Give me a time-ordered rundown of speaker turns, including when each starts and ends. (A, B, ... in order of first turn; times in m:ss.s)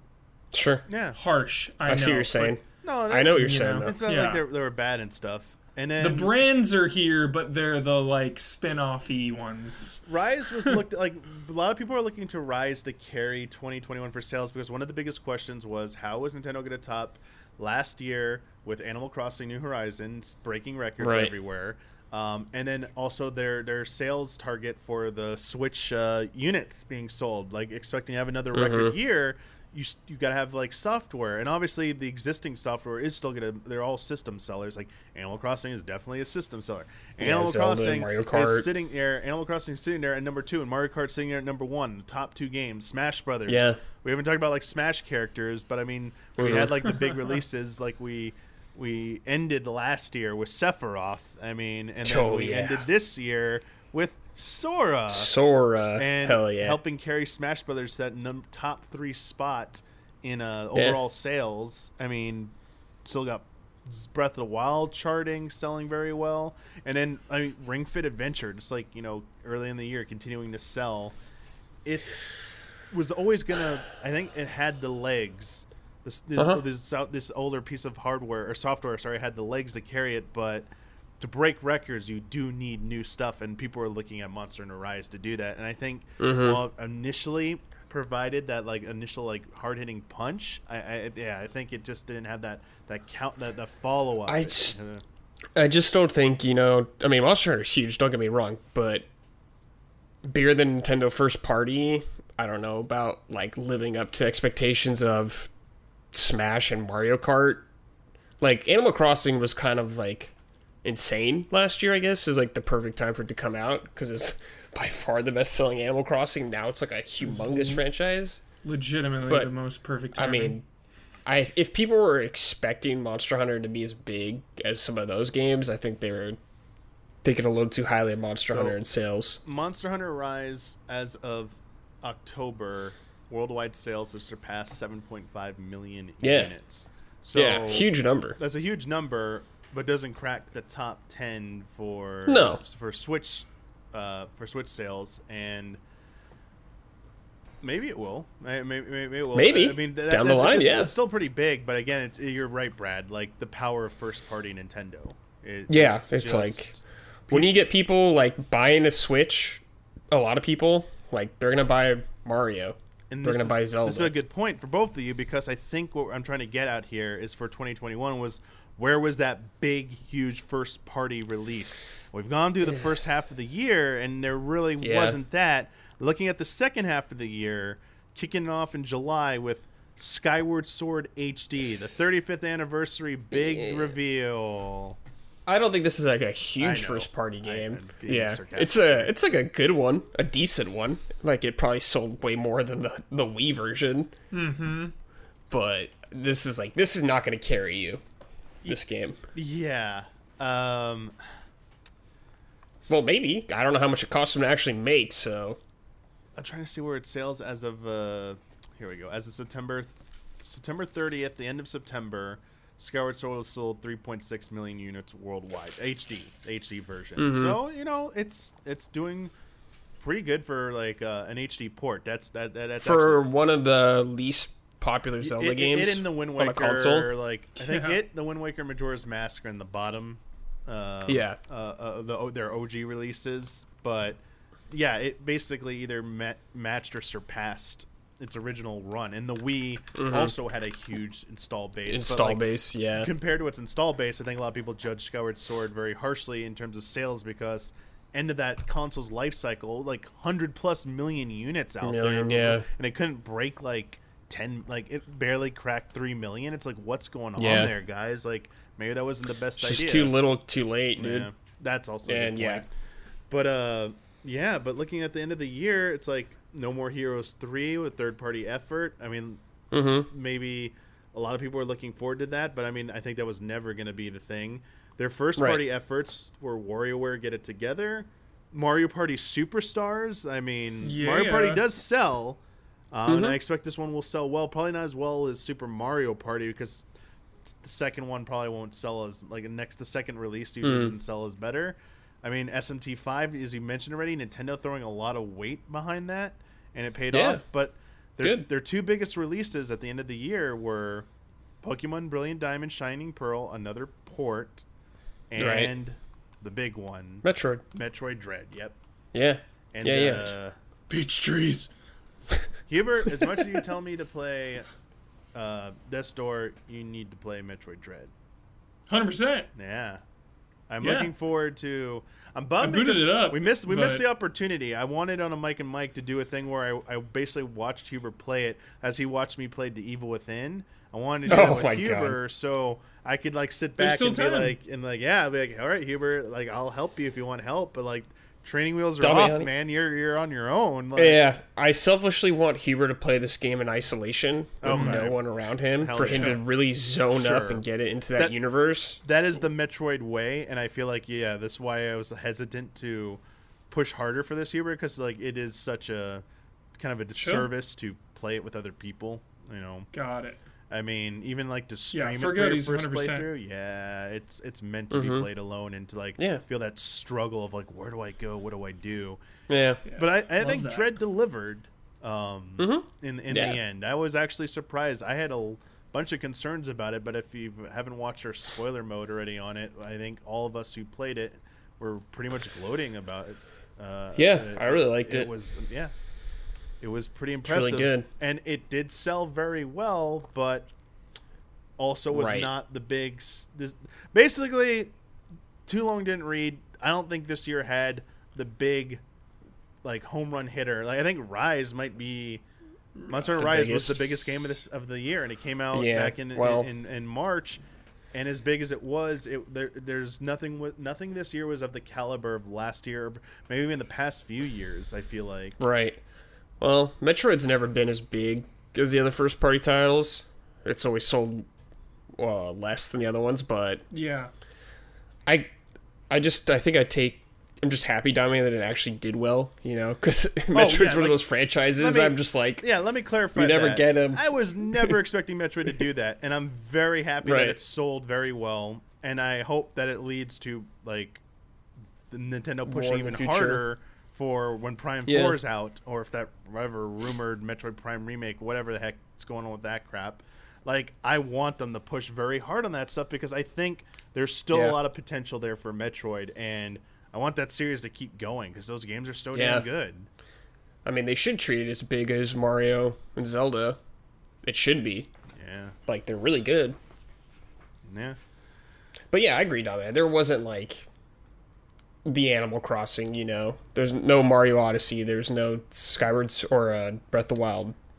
0:00.5-0:00.8 A
0:00.9-0:01.2 B
0:01.2-0:02.6 C
0:01.9-0:04.0 A
0:02.8-0:06.3 B
0:03.3-0:04.4 C
0:06.0-0:10.0 C
0:10.1-0:55.3 B
0:21.0-0:21.3 A
0:28.5-0:28.9 A
0:37.2-0:38.7 A
0:43.5-0:43.8 A
0:46.4-0:46.7 A
0:52.0-0:52.8 A
0:55.1-0:56.8 A
0:56.0-1:02.5 B
1:00.7-1:01.0 A
1:03.0-1:11.2 B
1:11.8-1:20.7 B
1:16.4-1:16.6 A
1:21.2-1:35.0 B
1:26.2-1:26.6 A
1:34.2-1:34.8 A
1:35.5-1:39.0 A
1:40.2-1:45.5 A
1:46.1-1:47.6 A
1:48.4-1:58.4 A
1:57.2-1:57.8 C
1:58.6-2:00.6 C
1:59.3-1:59.5 A
2:00.1-2:00.6 A
2:01.2-2:06.4 A
2:07.2-2:09.4 A
2:08.5-2:08.8 B
2:09.4-2:25.8 B
2:16.2-2:16.5 A
2:17.3-2:18.4 A
2:22.3-2:22.6 A
2:27.6-2:37.6 B
2:29.3-2:30.9 A
2:35.7-2:36.7 A
2:37.3-2:44.1 A
2:43.1-3:05.0 B
2:54.8-2:55.2 A
3:03.3-3:03.9 A
3:05.4-3:14.1 A
3:06.6-3:09.1 B
3:14.3-3:14.9 C
3:15.5-3:18.0 A
3:18.7-3:19.2 A
3:19.3-3:21.2 B
3:22.9-3:25.6 A
3:26.3-3:39.3 B
3:37.2-3:37.6 A
3:40.0-3:43.2 B
3:42.8-3:47.1 A
3:45.2-3:54.2 B
3:47.6-3:48.0 C
3:51.1-3:51.4 A
3:54.7-4:20.1 B
4:00.0-4:00.3 A
4:01.9-4:03.1 A
4:11.8-4:12.6 A
4:17.4-4:17.7 A
4:19.6-4:21.3 A
4:21.0-4:22.7 B
4:22.1-4:22.6 A
4:23.3-4:42.4 B
4:29.7-4:30.0 A
4:35.4-4:35.6 A
4:40.8-4:41.6 C
4:42.9-4:46.9 B
4:43.1-4:43.4 A
4:47.4-5:01.1 B
4:50.6-4:50.9 A
4:57.1-4:57.4 A
4:58.2-4:58.4 A
5:01.6-5:04.6 B
5:05.3-5:08.8 B
5:05.4-5:05.7 A
5:07.2-5:07.6 A
5:09.1-5:10.3 A
5:09.7-5:10.6 B
5:10.9-5:11.7 C
5:12.7-5:14.7 B
5:15.3-5:18.1 B
5:18.9-5:19.5 C
5:19.5-5:20.0 B
5:20.7-5:41.3 B
5:20.8-5:21.1 C
5:22.6-5:24.0 C
5:31.3-5:32.2 A
5:33.8-5:34.6 C
5:39.0-5:39.5 A
5:41.0-5:49.0 A
5:44.6-5:45.2 B
5:44.7-5:45.1 C
5:45.8-5:46.4 B
5:46.0-5:46.4 C
5:47.1-5:47.6 B
5:49.0-5:56.2 B
5:56.8-5:59.9 B
5:57.1-5:57.5 C
5:59.9-6:00.4 C
6:00.7-6:09.2 B
6:01.9-6:03.3 C
6:04.9-6:05.3 A
6:09.5-6:09.8 A
6:09.8-6:10.9 C
6:09.9-6:25.9 B
6:12.6-6:13.6 A
6:24.2-6:25.3 A
6:26.8-6:30.7 B
6:27.4-6:28.1 A
6:31.8-6:34.9 B
6:32.1-6:32.5 A
6:35.6-6:39.0 B
6:39.8-6:42.4 B
6:43.1-6:47.6 B
6:43.4-6:44.6 A
6:45.7-6:46.7 A
6:48.1-6:55.6 B
6:55.6-6:56.0 A
6:56.6-7:01.5 A
7:02.1-7:03.8 A
7:03.9-7:04.3 C
7:05.2-7:05.5 A
7:06.1-7:12.6 A
7:10.5-7:21.2 B
7:13.3-7:15.0 A
7:17.2-7:17.6 A
7:22.1-7:40.1 B
7:22.6-7:23.6 A
7:25.1-7:25.4 A
7:34.5-7:34.8 A
7:39.3-7:39.6 A
7:40.8-7:43.8 A
7:44.4-7:45.1 A
7:45.4-7:45.8 B
7:45.9-7:46.8 A
7:47.9-7:48.2 B
7:49.1-7:50.9 A
7:52.0-7:57.8 A